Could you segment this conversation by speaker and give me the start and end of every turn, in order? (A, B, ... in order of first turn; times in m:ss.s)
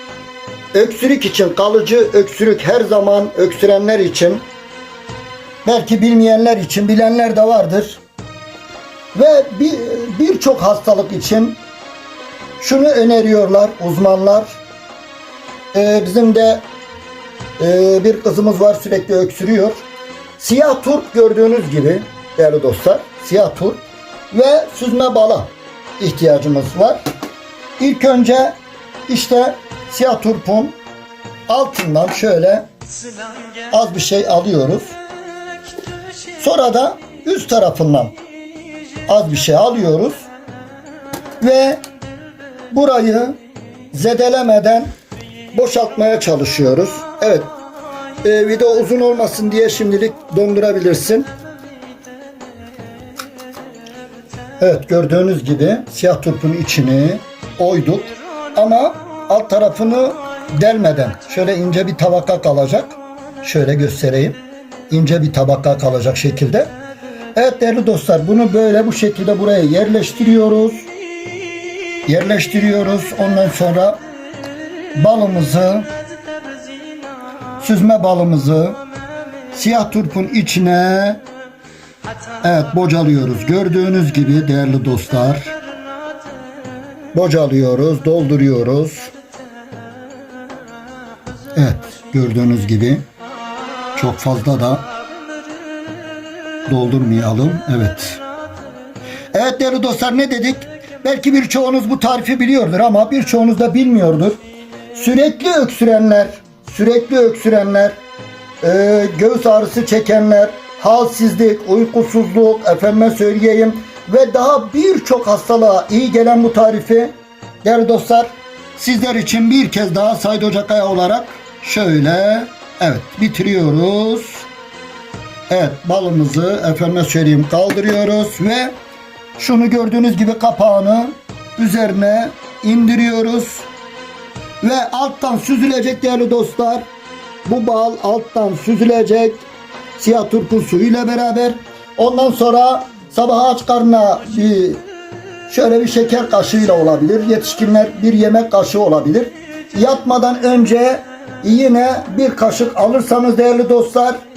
0:00.7-0:04.4 A
0:05.6-0:08.0 A
0:09.1-0:11.6 A
0:12.6-0:14.6 A
0:15.7-0:16.6 A
0:17.6-0:19.8 A
0:20.4-0:27.0 A
0:27.8-0:28.6 A
0:29.1-0:30.8 A
0:31.5-0:32.7 A
0:33.7-0:35.0 A
0:36.4-0:38.2 A
0:39.1-0:40.3 A
0:41.4-0:41.8 A
0:42.7-0:43.4 A
0:43.9-0:44.9 A
0:45.5-0:47.5 A
0:48.2-0:51.3 A
0:54.6-1:06.7 A
1:07.4-1:10.9 A
1:12.1-1:14.0 A
1:15.0-1:15.9 A
1:17.6-1:18.8 A
1:19.5-1:21.2 A
1:22.4-1:25.6 A
1:27.1-1:29.1 A
1:31.6-1:33.0 A
1:34.0-1:34.9 A
1:36.7-1:38.2 A
1:39.3-1:44.4 A
1:44.9-1:48.0 A
1:48.6-2:04.5 A
2:05.5-2:08.7 A
2:09.4-2:13.7 A
2:14.6-2:16.8 A
2:17.4-2:19.4 A
2:20.0-2:24.8 A
2:25.5-2:34.2 A